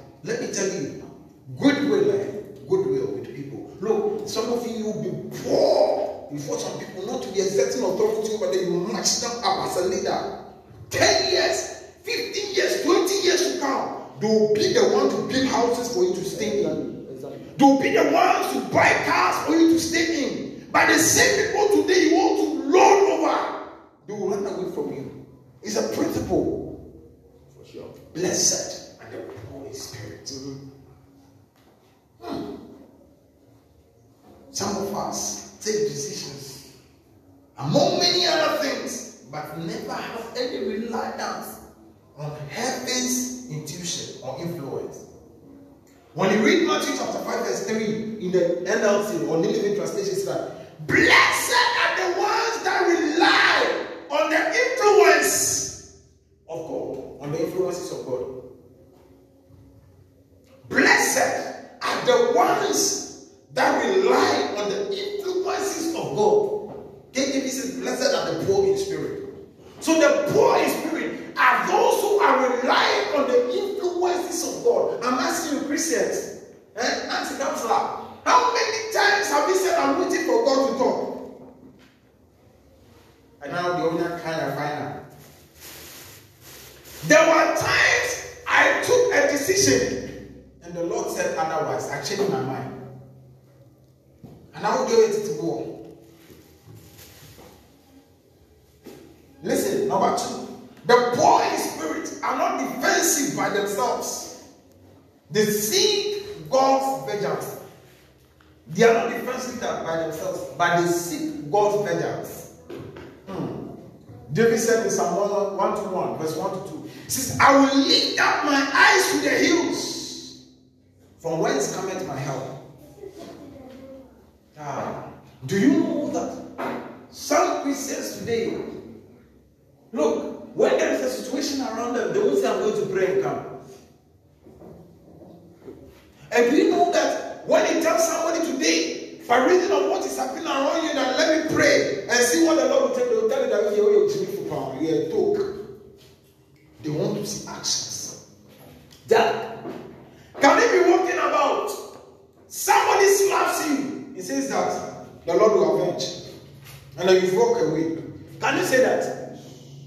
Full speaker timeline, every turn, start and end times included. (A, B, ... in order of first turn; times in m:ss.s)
0:00.2-0:10.3 A
0:10.9-0:16.8 A
0:16.2-0:17.6 B
0:17.5-0:26.6 A
0:27.5-0:28.0 B
0:28.1-0:30.4 A
0:30.3-0:30.6 B
0:34.5-0:36.7 A
0:37.6-0:41.6 A
0:42.2-0:45.0 A
0:46.1-0:55.7 A
0:56.5-0:58.3 A
1:00.6-1:06.5 A
1:07.1-1:09.2 A
1:09.8-1:21.1 A
1:23.4-1:25.0 A
1:27.0-1:30.0 A
1:30.6-1:32.7 A
1:34.5-1:35.7 A
1:39.4-1:44.3 A
1:45.3-1:47.5 A
1:48.6-1:52.5 A
1:53.2-1:53.6 A
1:54.3-2:00.4 A
2:01.2-2:02.5 A
2:04.5-2:06.4 A
2:07.1-2:08.5 A
2:09.9-2:13.5 A
2:16.3-2:25.5 A
2:26.8-2:28.2 A
2:29.0-2:29.5 A
2:30.4-2:31.8 A
2:32.5-2:36.2 A
2:37.0-2:39.2 A